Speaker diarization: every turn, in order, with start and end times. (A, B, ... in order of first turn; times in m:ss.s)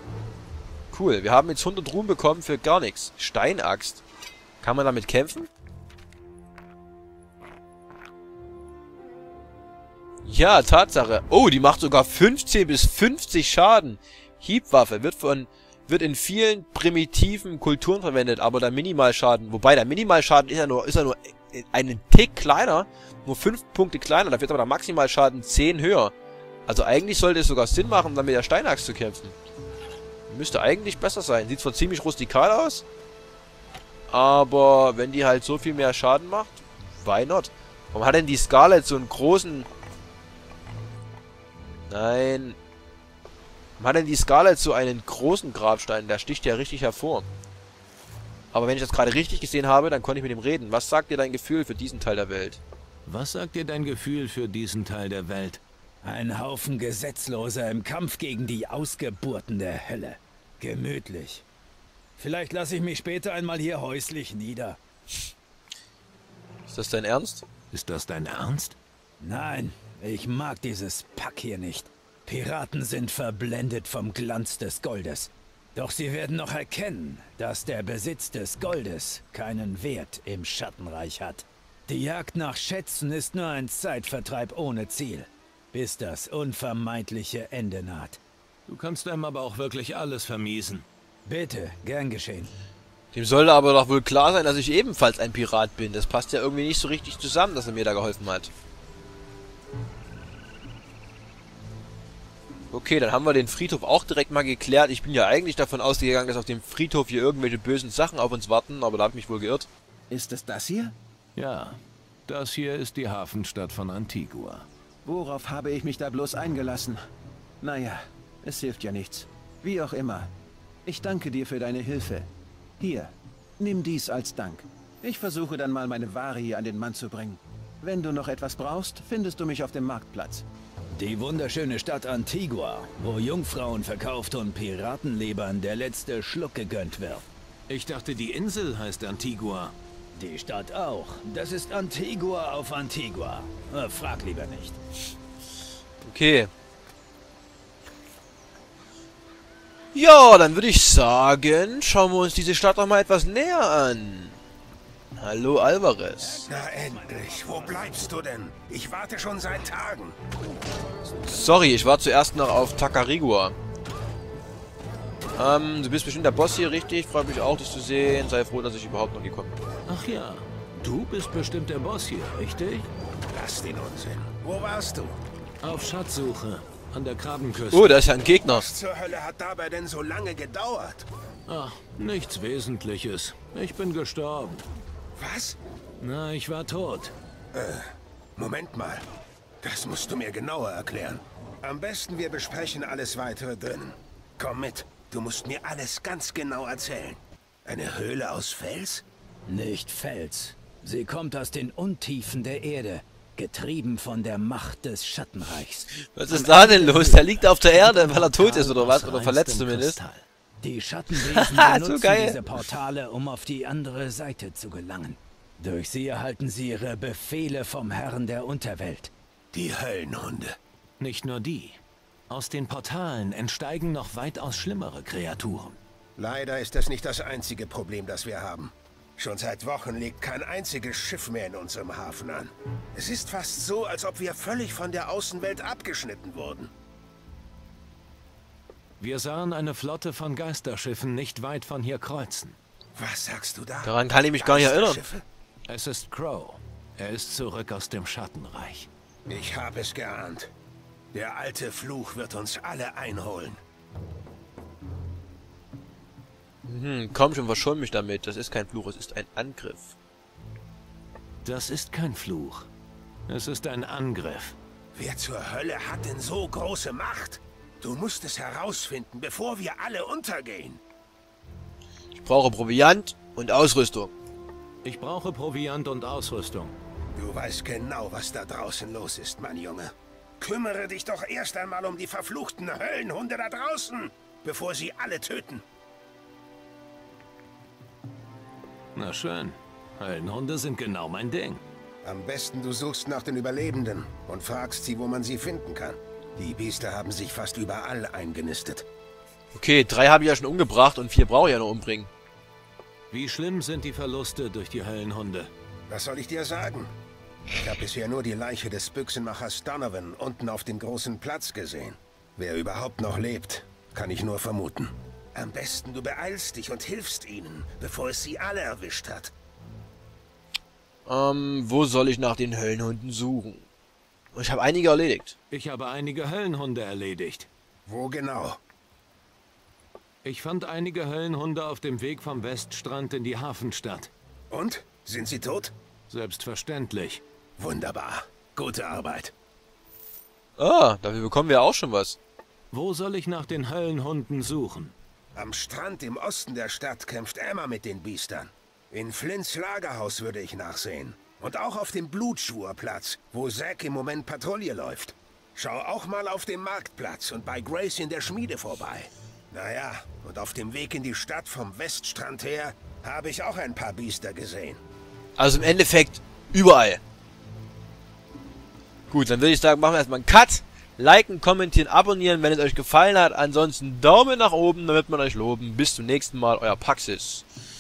0:00.9-0:04.0 A
0:04.6-0:05.5 A
0:10.2-0:26.1 A
0:26.7-0:29.4 A
0:30.3-0:32.8 A
0:34.1-0:39.7 A
0:41.9-0:42.6 A
0:43.8-0:47.3 A
0:48.5-0:52.6 A
0:53.1-0:55.6 B
0:56.0-1:01.4 C
1:02.2-1:04.8 C
1:06.7-1:07.4 A
1:07.7-1:08.8 B
1:09.2-1:28.2 C
1:28.7-1:30.9 B
1:31.3-1:32.5 C
1:33.1-1:38.5 A
1:42.7-1:49.7 A
1:50.1-1:51.0 D
1:51.4-1:54.7 B
1:55.0-1:57.0 D
1:57.6-2:00.3 D
2:00.9-2:02.3 D
2:02.8-2:10.4 D
2:11.0-2:17.3 C
2:17.7-2:19.8 B
2:20.2-2:24.8 C
2:26.0-2:26.5 A
2:29.9-2:34.4 A
2:35.2-2:36.4 A
2:36.2-2:38.1 C
2:36.5-2:40.2 E
2:41.3-2:43.6 A
2:45.4-2:49.6 A
2:49.9-2:52.9 B
2:53.3-2:55.2 E
2:55.6-2:58.0 B
2:57.7-2:58.6 A
2:58.4-3:01.1 E
3:01.5-3:04.7 B
3:05.2-3:05.6 E
3:06.0-3:07.1 B
3:07.5-3:09.0 E
3:09.6-3:19.0 E
3:19.5-3:27.4 C
3:26.0-3:30.0 A
3:27.8-3:30.2 B
3:30.6-3:39.1 C
3:31.2-3:32.4 A
3:39.5-3:40.6 E
3:41.0-3:45.8 B
3:46.2-3:56.7 E
3:59.0-4:02.6 B
4:03.0-4:05.2 E
4:03.8-4:05.0 A
4:05.7-4:08.9 B
4:09.3-4:10.5 E
4:11.1-4:13.6 E
4:16.6-4:20.0 A
4:21.4-4:22.7 B
4:23.3-4:24.6 B
4:25.0-4:30.8 E
4:32.1-4:34.1 A
4:34.8-4:36.8 B
4:37.2-4:45.6 E
4:49.0-4:51.6 B
4:52.0-4:58.9 E
4:59.5-5:02.1 A
5:03.1-5:05.5 B
5:05.9-5:06.9 E
5:07.5-5:19.3 E
5:21.1-5:23.7 A
5:24.3-5:25.4 A
5:25.5-5:27.5 B
5:27.9-5:28.6 E
5:30.2-5:34.1 B
5:34.5-5:35.7 E
5:36.1-5:37.2 B
5:37.6-5:39.3 E
5:40.6-5:42.2 A
5:42.7-5:45.0 B
5:45.4-6:04.8 E
6:05.4-6:07.0 A
6:09.1-6:17.5 A